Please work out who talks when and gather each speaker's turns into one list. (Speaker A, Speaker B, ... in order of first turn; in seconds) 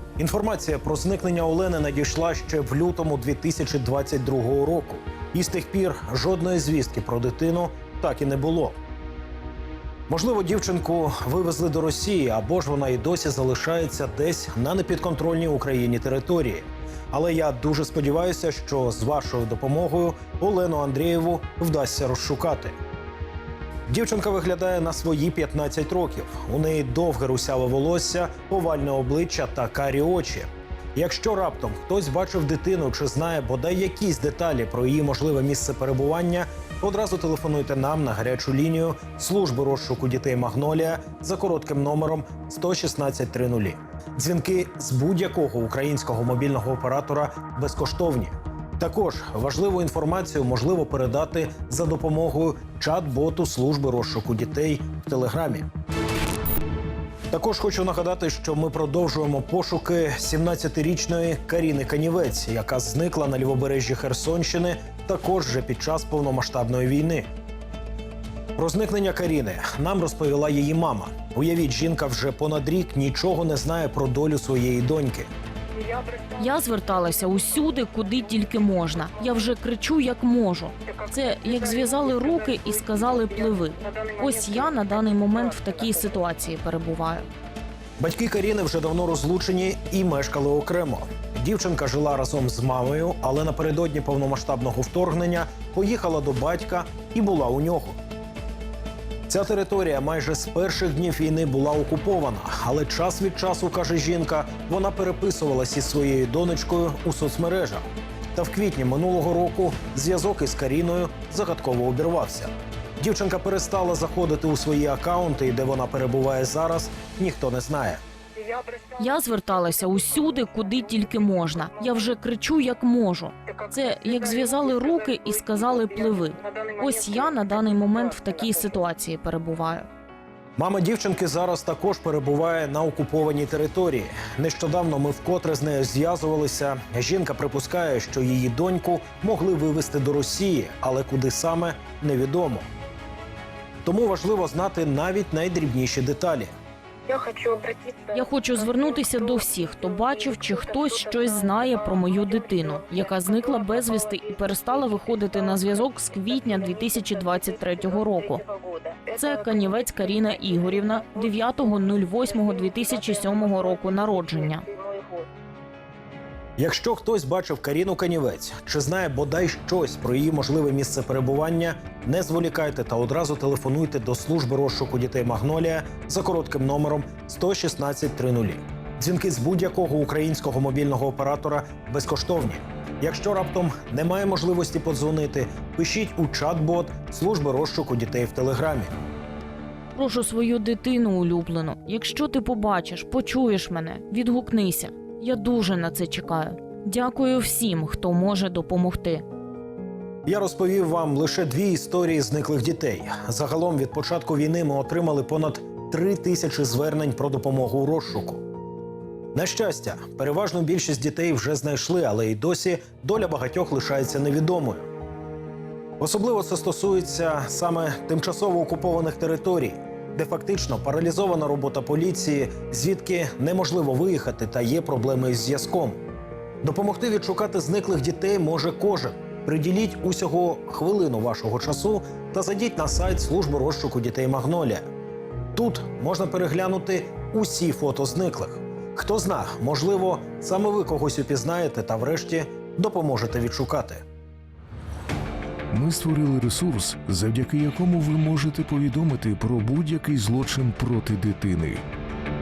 Speaker A: 0.2-8.8, 10.1-22.8, 23.9-55.7, 57.3-67.3, 68.6-75.3, 88.0-98.0, 99.3-118.0, 130.6-142.7, 143.8-146.5, 166.6-188.9, 200.3-208.4, 209.3-214.9, 216.0-226.0, 226.6-234.8, 235.6-244.0
Speaker B: 75.8-76.3, 118.4-118.9, 147.1-148.0, 158.5-159.0, 164.7-165.3
Speaker C: 76.4-87.3, 119.0-129.9, 148.1-158.4, 159.1-164.7, 189.9-199.2
Speaker D: 245.7-251.9